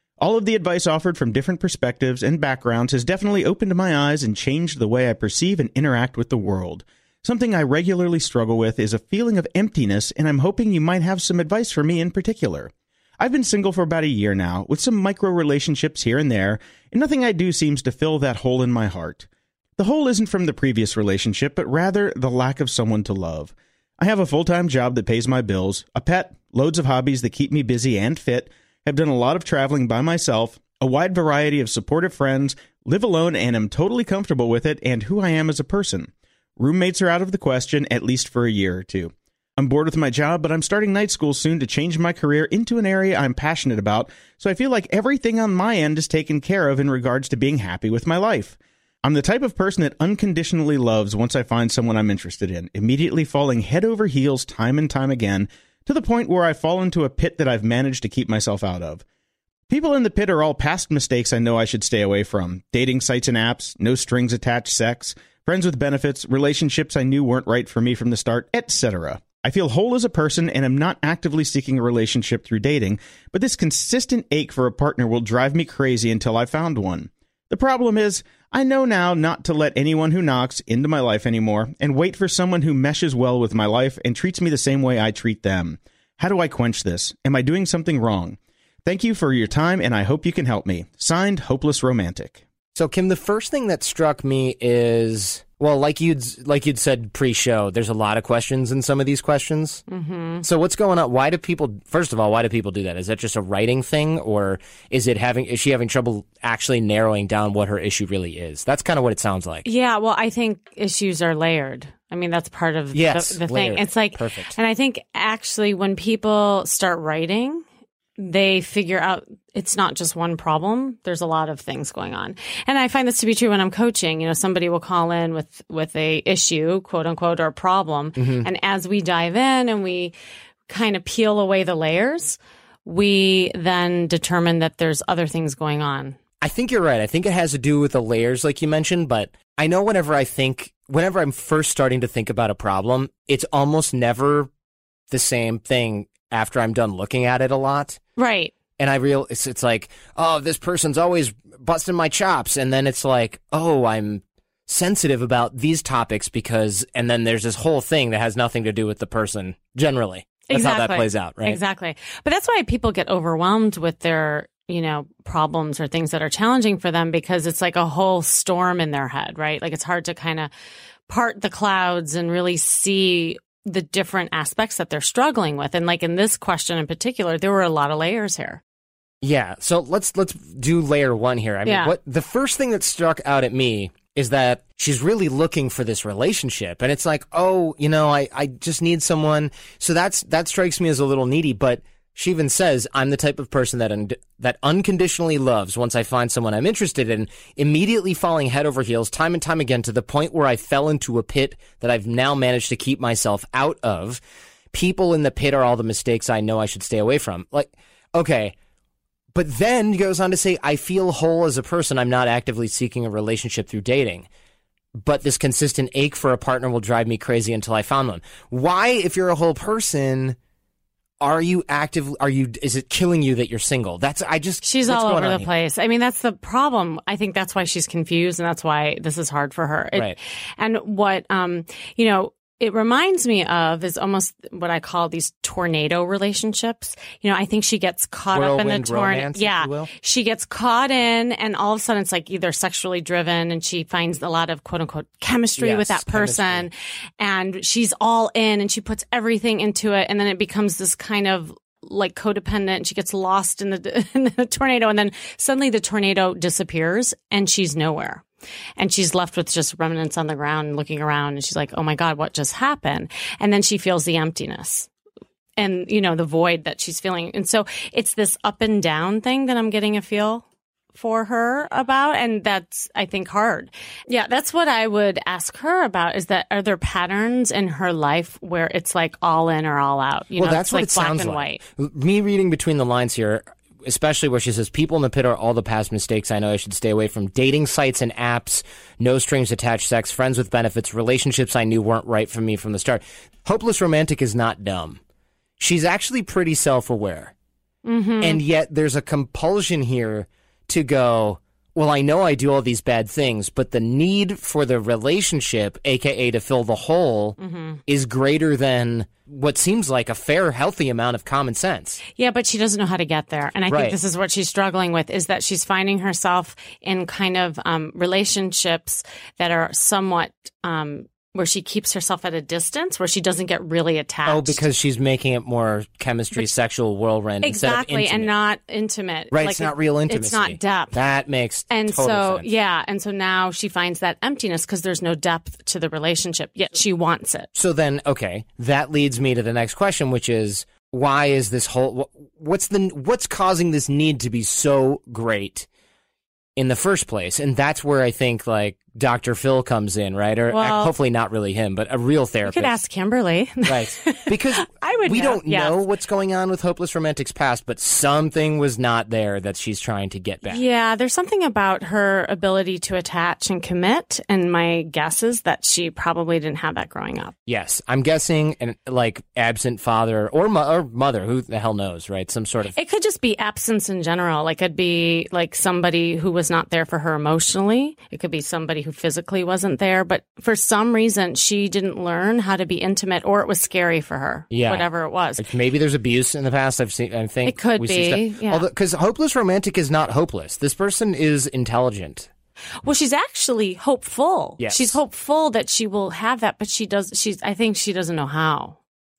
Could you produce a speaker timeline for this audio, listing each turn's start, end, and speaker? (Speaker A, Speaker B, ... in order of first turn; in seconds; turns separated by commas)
Speaker A: 0.2-59.0, Speaker A: 59.7-92.4, Speaker B: 92.8-99.8, Speaker C: 99.9-100.5, Speaker B: 100.4-109.7, Speaker C: 109.7-117.7, Speaker B: 112.9-114.6, Speaker C: 118.2-130.2, Speaker B: 128.2-128.5, Speaker C: 130.7-136.2, Speaker B: 136.4-144.5, Speaker B: 145.1-148.0, Speaker C: 148.2-148.5, Speaker B: 148.8-161.6, Speaker C: 160.5-170.5, Speaker C: 171.1-178.6, Speaker B: 179.2-204.2, Speaker C: 181.7-181.9, Speaker B: 204.7-208.5, Speaker B: 209.3-214.3, Speaker B: 215.0-220.4, Speaker B: 221.2-225.5, Speaker C: 224.6-258.2, Speaker B: 238.3-239.9, Speaker B: 245.6-246.7, Speaker C: 258.8-264.9, Speaker C: 265.6-281.6, Speaker B: 280.4-295.0, Speaker B: 295.6-297.3, Speaker C: 297.9-298.4, Speaker B: 298.2-312.0, Speaker C: 307.4-307.8, Speaker C: 312.2-324.6, Speaker B: 313.7-314.0, Speaker B: 324.3-328.3, Speaker C: 327.4-331.0, Speaker B: 329.3-332.5, Speaker C: 331.7-337.5, Speaker B: 337.6-345.7, Speaker B: 346.6-352.8, Speaker C: 350.5-350.9, Speaker C: 352.5-355.8, Speaker B: 353.6-360.6, Speaker C: 360.5-367.3, Speaker B: 367.5-372.8, Speaker C: 372.7-385.4, Speaker B: 384.5-384.9, Speaker B: 385.4-392.3, Speaker C: 387.4-388.6, Speaker C: 392.8-398.8, Speaker B: 394.6-395.0